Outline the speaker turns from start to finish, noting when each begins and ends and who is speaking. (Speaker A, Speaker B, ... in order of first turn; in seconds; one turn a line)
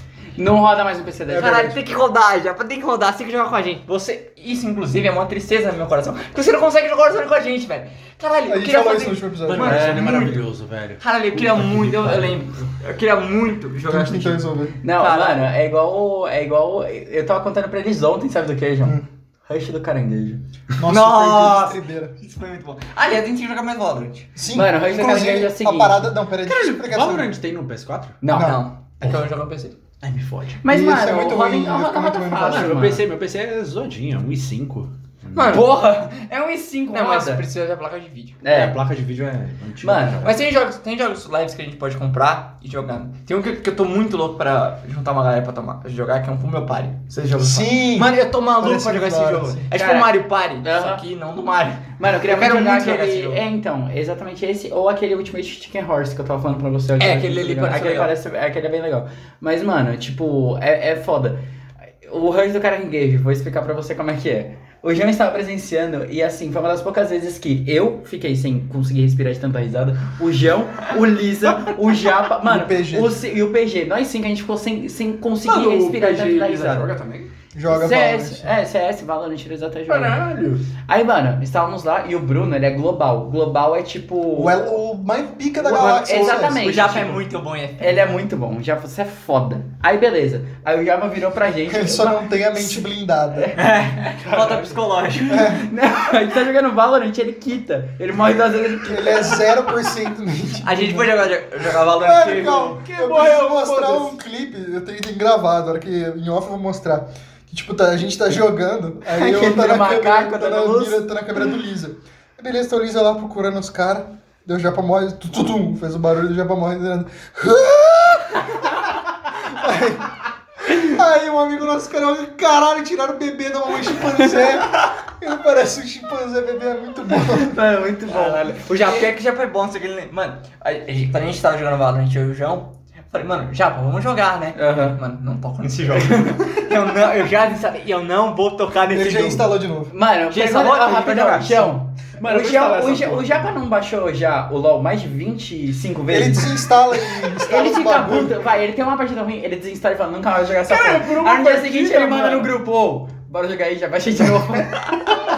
Speaker A: 0.4-1.7
Speaker B: 1.3-10.4
Speaker C: 1.3-1.7
Speaker C: 8.5-10.0
Speaker D: 9.5-12.4
Speaker B: 11.0-15.5
Speaker C: 13.9-14.8
Speaker A: 14.8-20.4
Speaker C: 20.8-22.1
Speaker B: 20.8-24.3
Speaker C: 24.4-27.3
Speaker A: 24.5-26.1
Speaker D: 26.5-28.2
Speaker A: 28.2-28.6
Speaker B: 28.3-29.8
Speaker C: 28.3-28.6
Speaker D: 30.0-30.6
Speaker A: 30.6-33.0
Speaker C: 30.7-32.8
Speaker D: 32.5-35.6
Speaker B: 35.3-35.8
Speaker A: 35.5-37.4
Speaker B: 36.9-38.4
Speaker A: 38.4-38.8
Speaker D: 38.5-40.4
Speaker A: 39.8-40.3
Speaker B: 40.2-53.4
Speaker C: 47.4-49.6
Speaker A: 49.7-51.0
Speaker A: 52.0-61.4
Speaker B: 57.0-58.1
Speaker A: 62.0-76.9
Speaker C: 72.4-73.2
Speaker D: 75.5-77.3
Speaker C: 77.5-78.5
Speaker A: 77.7-80.2
Speaker D: 79.9-80.7
Speaker A: 80.9-84.8
Speaker C: 84.3-86.7
Speaker A: 85.6-87.2
Speaker B: 86.1-88.1
Speaker A: 87.8-93.9
Speaker C: 91.7-93.5
Speaker B: 93.5-95.5
Speaker D: 94.2-94.8
Speaker A: 95.2-99.5
Speaker C: 95.3-95.7
Speaker C: 98.8-101.2
Speaker B: 100.6-102.7
Speaker C: 101.9-120.1
Speaker D: 102.1-104.2
Speaker A: 109.1-111.0
Speaker C: 120.6-127.6
Speaker A: 127.3-128.4
Speaker B: 128.1-139.5
Speaker A: 134.6-135.0
Speaker C: 138.9-139.9
Speaker A: 139.9-146.6
Speaker B: 140.3-141.8
Speaker D: 142.2-143.5
Speaker C: 146.1-148.4
Speaker A: 147.4-155.0
Speaker D: 150.7-152.5